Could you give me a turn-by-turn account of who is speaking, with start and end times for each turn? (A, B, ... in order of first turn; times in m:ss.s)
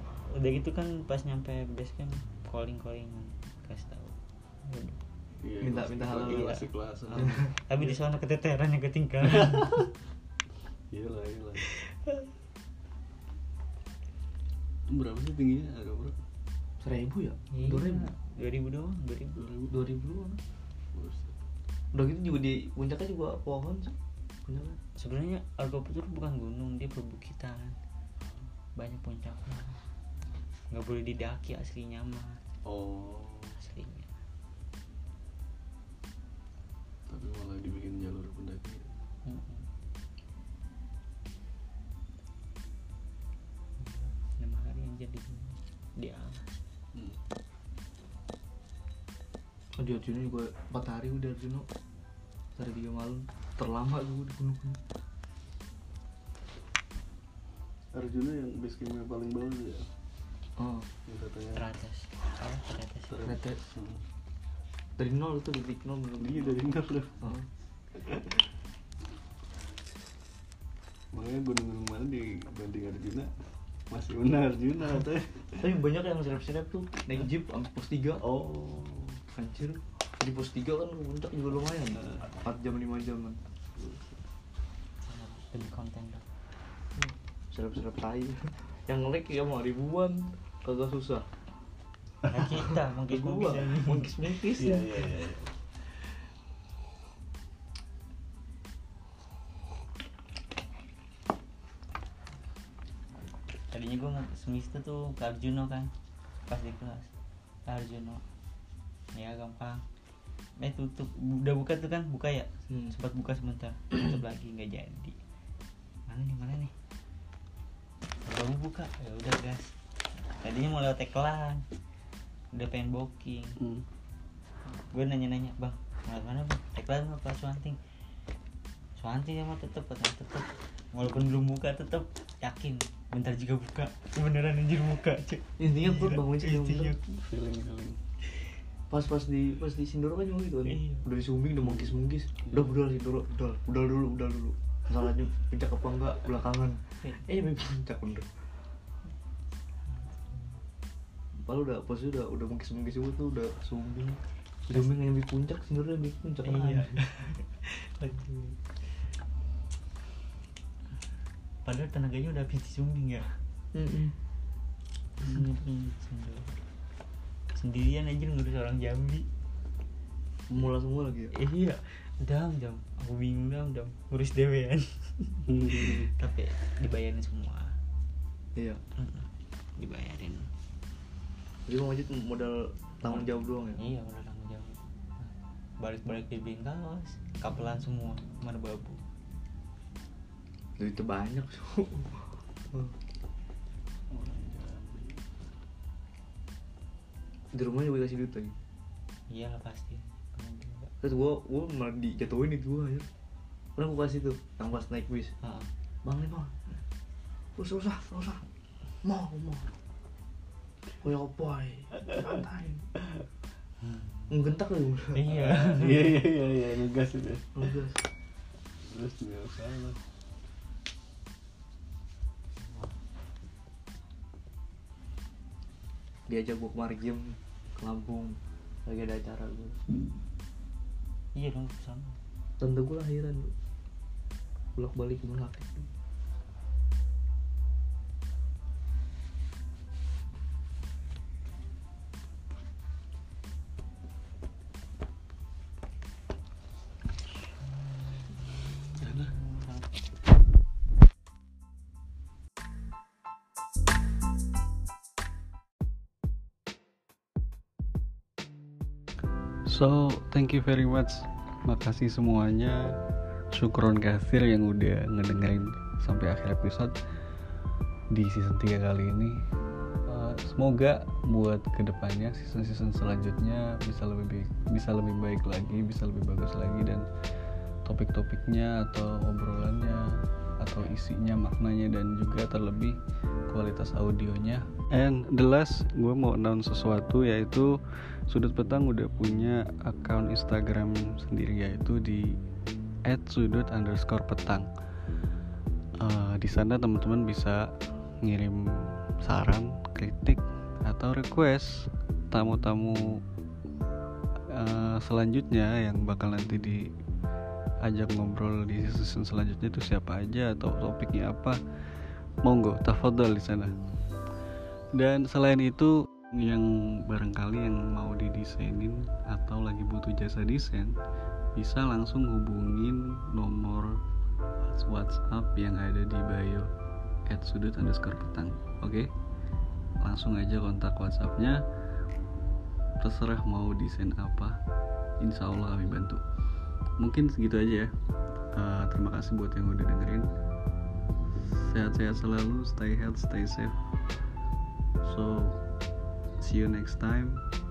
0:00.3-0:05.0 A
0:05.4-0:08.0 B
0:05.6-0:06.5 C
0:06.2-0:09.9 A
0:09.3-0:09.8 B
0:10.9-0:11.6 B
0:11.6-0:12.3 A
0:14.9-0:16.2 B
0:16.8-0:18.1 C
0:17.5-0:19.5 A
0:19.4-0:19.8 B
0:19.7-0:20.4 C
0:20.9-0:21.4 B
0:21.9-0:23.9 C
0:24.4-0:24.8 C
0:25.0-0:27.8 A
0:28.8-0:29.8 A
0:30.7-0:32.5 A
0:32.6-0:33.6 B
0:33.6-0:34.1 A
0:37.1-0:38.9 B
0:39.2-0:39.6 A
0:43.8-0:46.6 A
0:49.8-0:51.7 C
0:52.6-0:54.8 C
0:57.9-0:59.9 B
1:00.6-1:00.9 C
1:01.0-1:01.7 B
1:01.5-1:03.3 A
1:03.1-1:04.0 B
1:03.2-1:03.6 C
1:05.0-1:06.7 C
1:06.2-1:07.3 B
1:07.9-1:08.5 B
1:11.1-1:13.3 B
1:13.9-1:15.7 B
1:15.6-1:18.2 C
1:18.2-1:19.2 B
1:19.3-1:23.4 C
1:21.9-1:22.4 B
1:23.8-1:24.2 B
1:25.0-1:26.2 A
1:27.0-1:31.2 C
1:32.3-1:34.2 A
1:33.1-1:35.0 C
1:34.6-1:35.5 B
1:43.7-1:45.9 A
1:46.5-1:47.1 A
1:47.6-1:48.2 A
1:49.1-1:49.8 A
1:50.6-1:55.2 A
1:52.7-1:52.9 C
1:56.1-1:56.7 A
1:58.2-1:59.7 A
2:00.4-2:01.6 A
2:02.5-2:03.6 A
2:03.6-2:03.8 B
2:04.7-2:07.8 A
2:09.0-2:17.0 A
2:15.6-2:17.0 C
2:17.1-2:18.0 B
2:18.9-2:28.3 C
2:20.7-2:21.0 A
2:21.6-2:21.9 B
2:22.5-2:22.8 B
2:29.9-2:30.6 A
2:31.4-2:37.0 C
2:36.4-2:38.6 A
2:41.6-2:43.3 A
2:43.7-2:44.1 C
2:45.2-2:46.5 A
2:47.5-2:49.3 A
2:50.5-2:51.3 C
2:51.3-2:57.8 A
2:55.5-2:56.1 B
2:59.0-3:00.5 A
3:01.6-3:03.8 C
3:03.8-3:09.0 A
3:10.8-3:12.2 C
3:14.1-3:15.2 B
3:17.5-3:18.5 C
3:19.3-3:20.9 A
3:21.0-3:23.0 C
3:23.8-3:25.3 C
3:25.4-3:25.7 A
3:26.0-3:26.6 C
3:27.6-3:28.4 C
3:29.0-3:29.7 C
3:31.0-3:32.8 C
3:33.8-3:34.3 A
3:34.3-3:35.2 C
3:35.1-3:36.2 A
3:35.3-3:37.7 B
3:37.5-3:38.0 C
3:38.8-3:40.0 B
3:46.3-3:49.8 C
3:51.3-3:52.2 A
3:52.6-3:53.5 C
3:54.8-3:55.9 C
4:07.9-4:08.4 A
4:09.0-4:09.8 A
4:09.0-4:09.3 B
4:19.6-4:23.0 B
4:23.5-4:27.0 B
4:28.1-4:29.4 B
4:30.0-4:37.1 B
4:37.8-4:43.0 B
4:43.5-4:52.4 B
4:53.0-4:54.7 B
4:56.0-5:03.2 B
5:04.5-5:06.9 B
5:07.8-5:11.6 B
5:12.4-5:13.8 B
5:14.9-5:21.0 B
5:21.5-5:24.0 B
5:24.6-5:26.7 B
5:27.3-5:29.1 B
5:30.0-5:31.6 B
5:33.0-5:34.6 B
5:35.2-5:36.2 B
5:37.0-5:37.9 B
5:38.5-5:40.3 B
5:41.5-5:43.8 B
5:45.0-5:45.6 B
5:46.4-5:47.4 B